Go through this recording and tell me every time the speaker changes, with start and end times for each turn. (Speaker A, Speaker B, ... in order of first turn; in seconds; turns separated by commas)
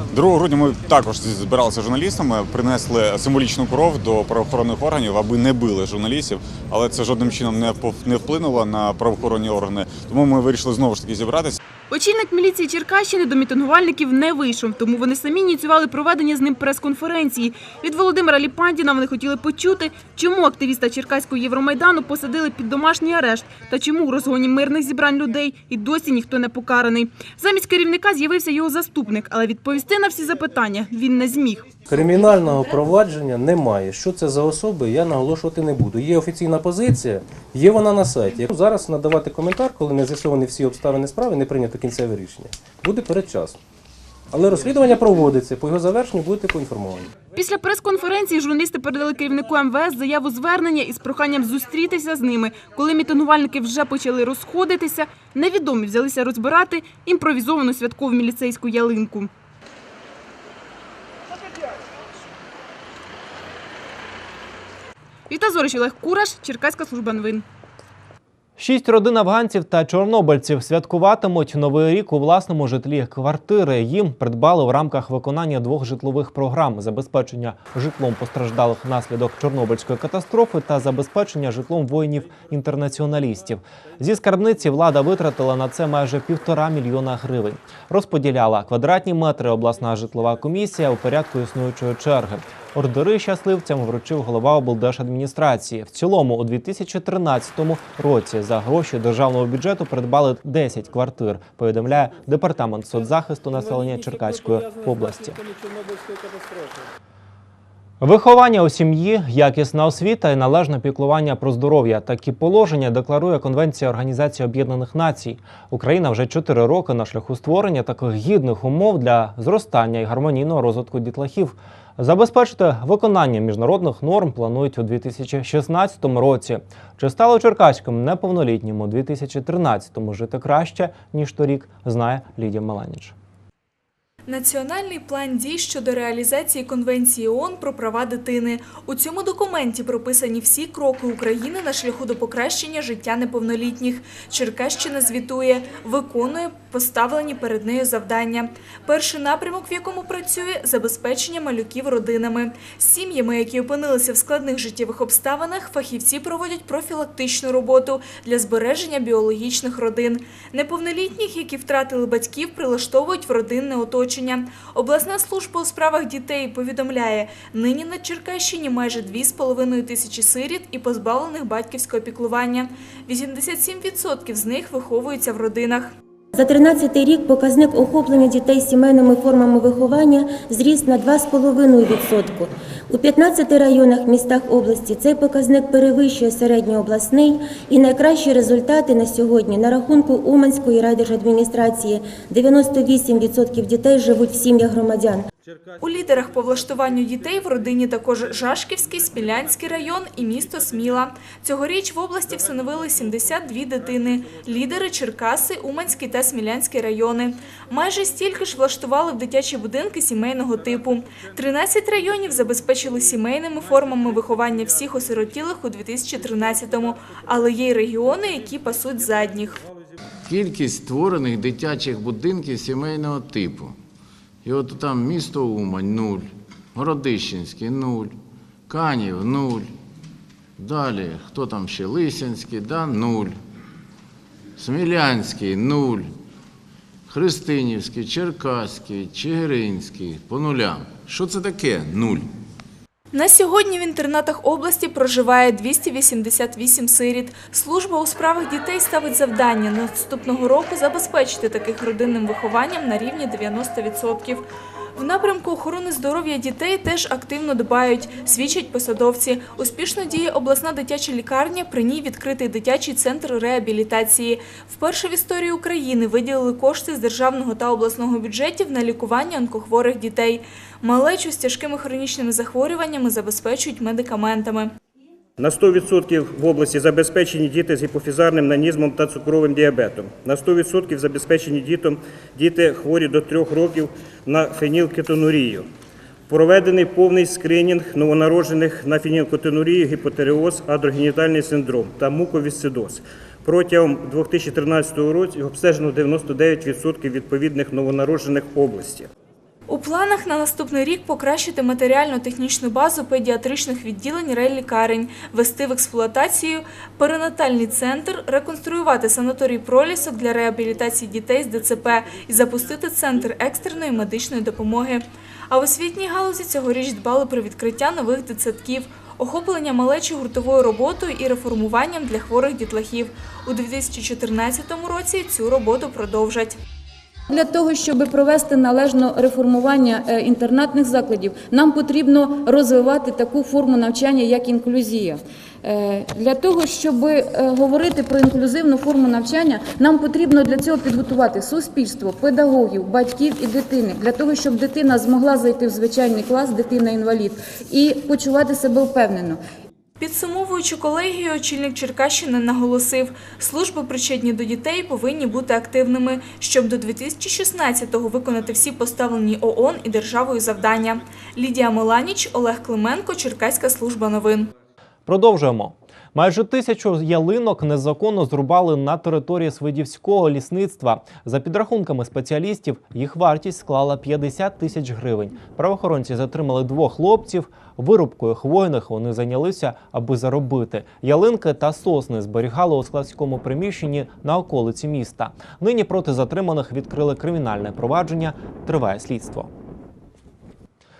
Speaker A: 0.1-11.6, Speaker B: 11.9-31.7, Speaker C: 31.9-43.6, Speaker C: 44.3-47.1, Speaker B: 47.3-59.3, Speaker B: 65.3-67.4, Speaker D: 68.6-105.4, Speaker D: 108.0-133.1, Speaker E: 134.2-175.9, Speaker F: 176.3-195.2, Speaker E: 195.8-219.6, Speaker G: 220.2-223.8, Speaker G: 224.4-228.1, Speaker G: 228.7-229.7, Speaker G: 230.6-233.4, Speaker G: 234.6-236.1, Speaker G: 237.1-242.3, Speaker E: 243.1-254.4, Speaker E: 255.0-274.7, Speaker H: 275.4-285.7, Speaker H: 286.3-299.1, Speaker E: 299.7-326.6, Speaker I: 327.3-349.4, Speaker E: 350.0-364.5, Speaker D: 365.1-389.5